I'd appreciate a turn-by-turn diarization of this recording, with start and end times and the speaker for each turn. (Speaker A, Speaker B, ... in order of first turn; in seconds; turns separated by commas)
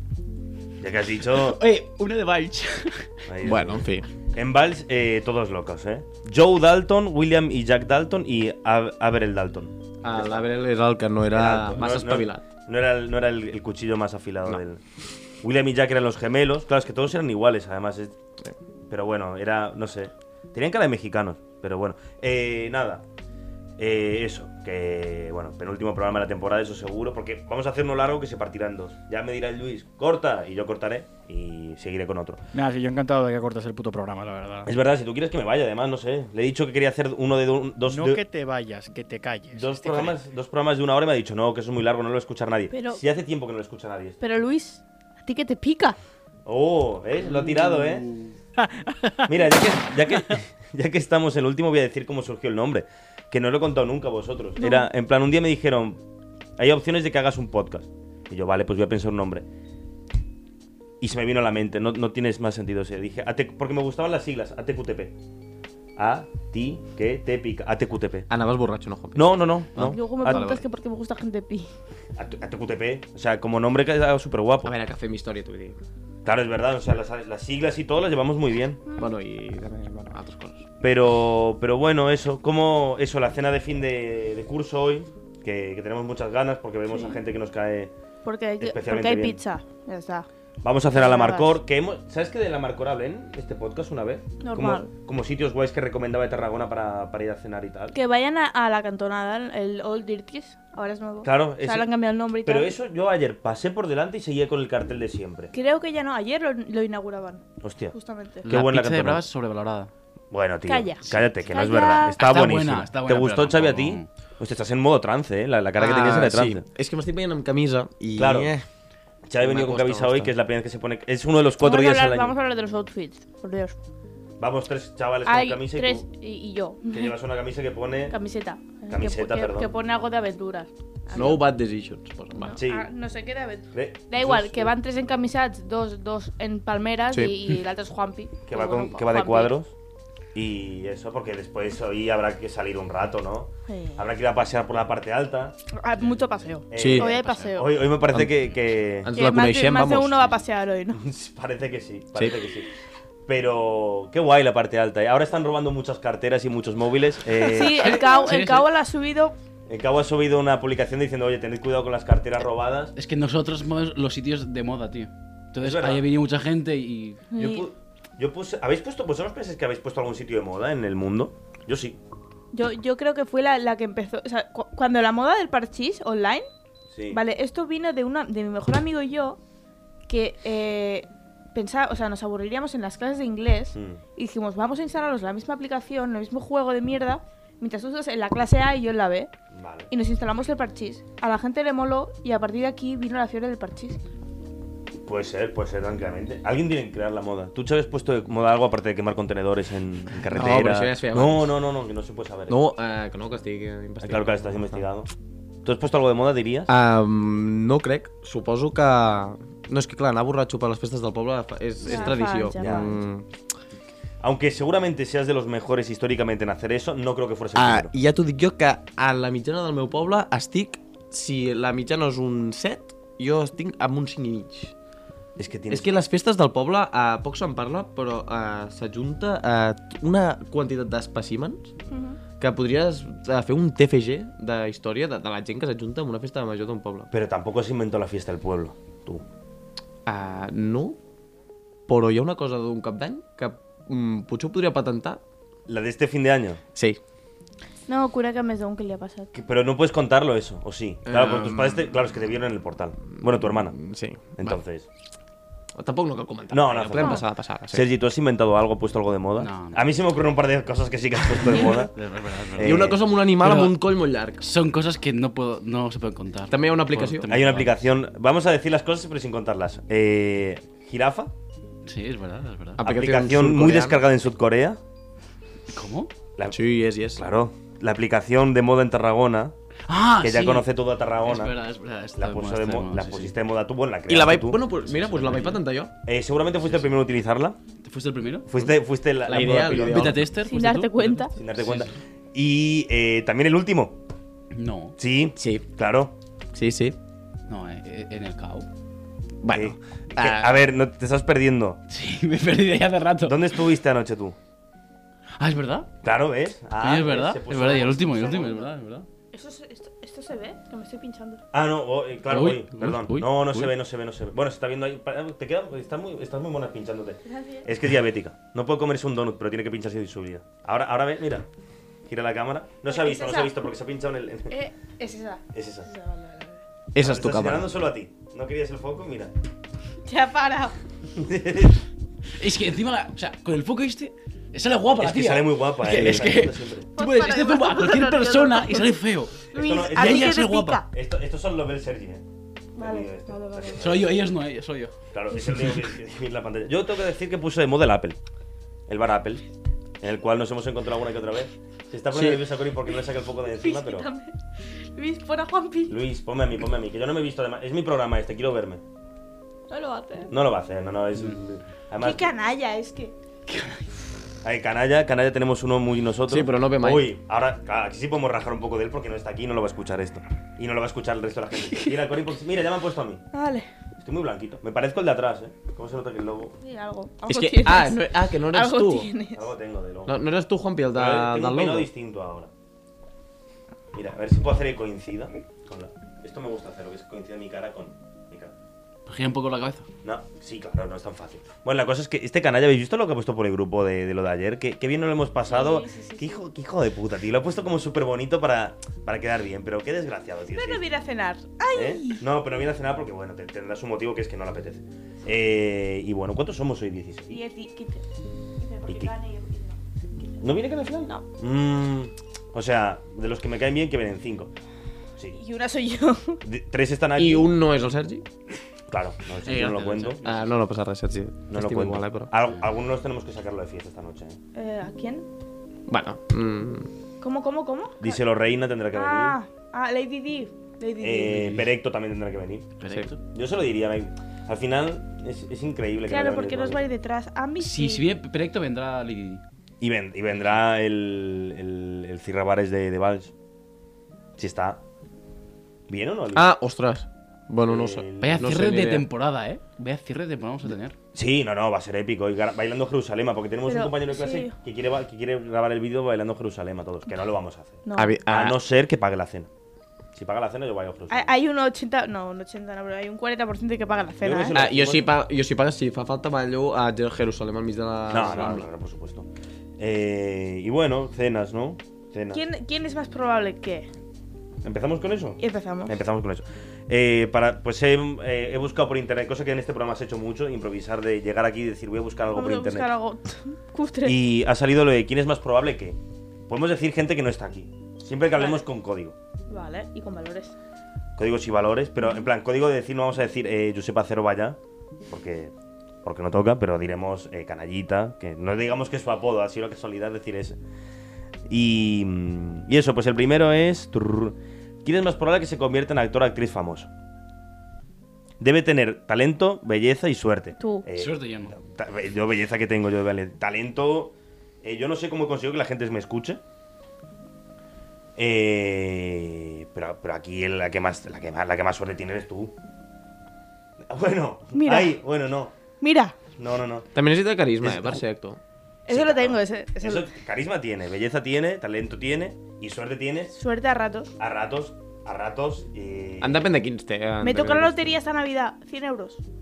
Speaker A: 0.8-1.6, Speaker B: 1.3-3.1, Speaker A: 3.3-10.5, Speaker C: 3.4-4.1, Speaker C: 10.0-12.4, Speaker A: 11.3-14.8, Speaker A: 15.4-18.1, Speaker A: 18.9-23.0, Speaker A: 23.8-32.4, Speaker D: 32.5-34.7, Speaker A: 34.6-38.2, Speaker D: 37.9-40.1, Speaker A: 39.5-44.2, Speaker E: 42.7-43.0, Speaker E: 44.2-46.0, Speaker A: 46.5-48.1, Speaker A: 49.3-56.0, Speaker E: 54.6-54.9, Speaker A: 56.6-59.4, Speaker A: 61.0-65.1, Speaker A: 66.0-68.3, Speaker C: 68.3-70.6, Speaker A: 69.1-70.5, Speaker E: 69.8-71.7, Speaker A: 72.2-74.7, Speaker C: 74.6-75.8, Speaker A: 76.2-78.8, Speaker C: 79.0-80.7, Speaker A: 80.8-87.9, Speaker E: 86.9-87.2, Speaker E: 88.2-90.3, Speaker A: 88.6-89.4, Speaker A: 90.6-98.0, Speaker E: 90.9-91.5, Speaker E: 94.4-94.9, Speaker E: 97.9-102.7, Speaker A: 101.2-101.9, Speaker A: 102.4-105.5, Speaker E: 105.5-108.5, Speaker A: 107.6-109.2, Speaker B: 108.5-109.9, Speaker A: 110.3-116.6, Speaker E: 110.7-112.1, Speaker B: 112.0-114.1, Speaker C: 115.8-118.6, Speaker A: 118.2-118.5, Speaker A: 119.2-122.3, Speaker C: 119.4-120.3, Speaker E: 121.6-123.8, Speaker A: 124.4-126.0, Speaker E: 125.2-127.1, Speaker A: 126.9-128.2, Speaker E: 128.1-131.4, Speaker A: 128.9-129.7, Speaker C: 131.1-132.6, Speaker E: 132.3-139.5, Speaker A: 132.6-132.9, Speaker A: 133.7-134.7, Speaker A: 138.5-139.7, Speaker A: 140.3-145.6, Speaker E: 143.7-144.0, Speaker E: 145.8-147.7, Speaker A: 146.7-149.1, Speaker C: 146.7-147.1, Speaker B: 147.1-147.6, Speaker C: 149.0-150.3, Speaker E: 149.2-151.0, Speaker A: 150.9-152.7, Speaker A: 153.3-158.1, Speaker E: 157.4-159.3, Speaker B: 157.5-158.7, Speaker A: 159.7-162.9, Speaker B: 162.9-167.3, Speaker A: 165.6-166.0, Speaker E: 167.3-167.7, Speaker A: 167.3-172.0, Speaker E: 172.5-176.5, Speaker A: 176.9-177.2, Speaker E: 177.1-179.4, Speaker E: 180.1-189.3, Speaker A: 183.7-184.0, Speaker A: 189.5-189.9, Speaker E: 189.9-194.0, Speaker A: 195.0-202.6, Speaker C: 200.3-201.6, Speaker C: 202.5-204.8, Speaker A: 204.0-205.1, Speaker A: 205.6-206.7, Speaker C: 206.7-213.2, Speaker E: 211.8-213.0, Speaker A: 212.6-212.9, Speaker A: 214.2-217.9, Speaker C: 217.5-224.7, Speaker A: 225.3-225.9, Speaker C: 225.7-231.7, Speaker E: 231.9-232.2, Speaker C: 232.4-237.1, Speaker A: 237.1-239.2, Speaker C: 240.1-241.0, Speaker C: 241.9-245.2, Speaker A: 245.7-246.6, Speaker C: 246.7-247.0, Speaker E: 247.9-249.3, Speaker A: 249.3-253.8, Speaker C: 251.0-251.9, Speaker C: 253.4-254.6, Speaker A: 254.3-254.9, Speaker C: 255.7-257.9, Speaker A: 256.5-263.0, Speaker B: 259.4-259.9, Speaker B: 261.5-263.8, Speaker C: 262.6-264.5, Speaker B: 264.4-267.7, Speaker C: 266.5-267.3, Speaker A: 267.2-271.3, Speaker B: 271.9-272.8, Speaker C: 272.8-274.0, Speaker A: 272.8-274.8, Speaker B: 275.7-276.1, Speaker C: 276.5-277.3, Speaker A: 277.1-279.5, Speaker B: 279.9-280.7, Speaker A: 280.2-281.5, Speaker B: 281.2-283.3, Speaker A: 282.1-284.6, Speaker C: 284.1-285.9, Speaker B: 284.9-285.6, Speaker A: 286.0-287.6, Speaker B: 287.8-288.5, Speaker A: 288.5-290.3, Speaker C: 289.2-290.2, Speaker B: 289.7-291.9, Speaker E: 290.4-291.3, Speaker A: 291.3-294.0, Speaker B: 294.5-294.9, Speaker A: 295.0-296.1, Speaker C: 295.4-295.6, Speaker C: 296.5-297.0, Speaker B: 297.5-298.7, Speaker C: 299.4-300.6, Speaker A: 299.5-301.8, Speaker B: 301.9-303.6, Speaker A: 303.2-304.4, Speaker B: 305.4-305.9, Speaker A: 306.0-308.7, Speaker B: 306.8-309.1, Speaker E: 309.3-311.4, Speaker A: 311.5-321.5, Speaker B: 312.3-313.7, Speaker E: 317.2-317.7, Speaker A: 322.1-324.6, Speaker E: 322.9-323.5, Speaker E: 324.5-326.6, Speaker A: 325.5-325.9, Speaker C: 326.9-327.7, Speaker A: 327.0-329.3, Speaker E: 330.1-330.8, Speaker A: 331.1-331.8, Speaker B: 332.4-340.8, Speaker A: 334.9-336.9, Speaker E: 337.0-338.9, Speaker E: 339.5-340.9, Speaker A: 339.5-342.2, Speaker E: 342.8-343.8, Speaker A: 342.8-344.1, Speaker B: 343.8-344.9, Speaker A: 345.1-348.2, Speaker A: 348.9-349.4, Speaker A: 350.0-354.1, Speaker C: 352.1-352.4, Speaker E: 353.6-354.3, Speaker E: 354.9-355.9, Speaker A: 355.9-358.8, Speaker E: 359.7-360.3, Speaker A: 360.3-362.3, Speaker E: 362.0-363.1, Speaker B: 363.5-363.9, Speaker A: 364.4-373.2, Speaker C: 366.3-367.1, Speaker E: 371.6-371.9, Speaker E: 373.3-373.7, Speaker A: 374.0-376.6, Speaker E: 376.6-379.5, Speaker C: 377.2-379.1, Speaker A: 379.3-380.2, Speaker C: 380.1-381.9, Speaker A: 380.9-382.5, Speaker A: 383.9-388.5, Speaker B: 389.1-389.9, Speaker A: 390.0-400.8, Speaker E: 395.5-396.4, Speaker E: 400.5-402.2, Speaker A: 401.7-407.4, Speaker E: 407.3-408.0, Speaker E: 408.6-410.4, Speaker A: 408.9-409.1, Speaker A: 410.4-414.5, Speaker E: 415.3-416.4, Speaker A: 416.4-417.5, Speaker C: 417.1-418.2, Speaker A: 418.9-420.2, Speaker B: 419.4-420.4, Speaker C: 420.2-422.3, Speaker A: 421.5-424.4, Speaker E: 424.5-425.3, Speaker C: 425.9-426.9, Speaker E: 427.2-428.2, Speaker A: 428.0-429.4, Speaker E: 428.9-431.5, Speaker A: 431.0-432.7, Speaker B: 431.4-431.6, Speaker B: 432.8-433.2, Speaker A: 433.3-436.8, Speaker E: 436.1-438.1, Speaker B: 437.6-439.4, Speaker A: 439.8-443.3, Speaker A: 444.4-444.8, Speaker A: 445.9-446.5, Speaker C: 446.3-449.1, Speaker A: 447.6-448.5, Speaker B: 448.2-450.9, Speaker A: 451.1-459.5, Speaker E: 453.6-454.5, Speaker E: 457.9-458.2, Speaker C: 457.9-458.6, Speaker A: 460.1-461.3, Speaker E: 461.1-464.6, Speaker A: 464.2-465.1, Speaker C: 464.5-468.7, Speaker A: 468.1-469.3, Speaker A: 469.8-472.4, Speaker E: 472.3-473.9, Speaker A: 474.6-482.9, Speaker E: 475.4-475.9, Speaker E: 482.3-484.2, Speaker A: 484.0-489.1, Speaker E: 488.4-488.6, Speaker E: 489.5-490.5, Speaker A: 491.2-495.5, Speaker A: 496.0-500.6, Speaker A: 501.5-506.9, Speaker A: 508.4-516.4, Speaker E: 510.6-510.8, Speaker B: 510.9-511.5, Speaker A: 518.2-522.5, Speaker A: 523.8-525.5, Speaker E: 524.5-524.9, Speaker E: 525.8-526.2, Speaker A: 526.4-526.9, Speaker C: 526.9-528.4, Speaker A: 527.6-528.0, Speaker E: 528.9-530.0, Speaker A: 528.9-533.4, Speaker E: 533.3-534.1, Speaker A: 534.2-536.5, Speaker C: 536.2-538.0, Speaker E: 537.2-539.2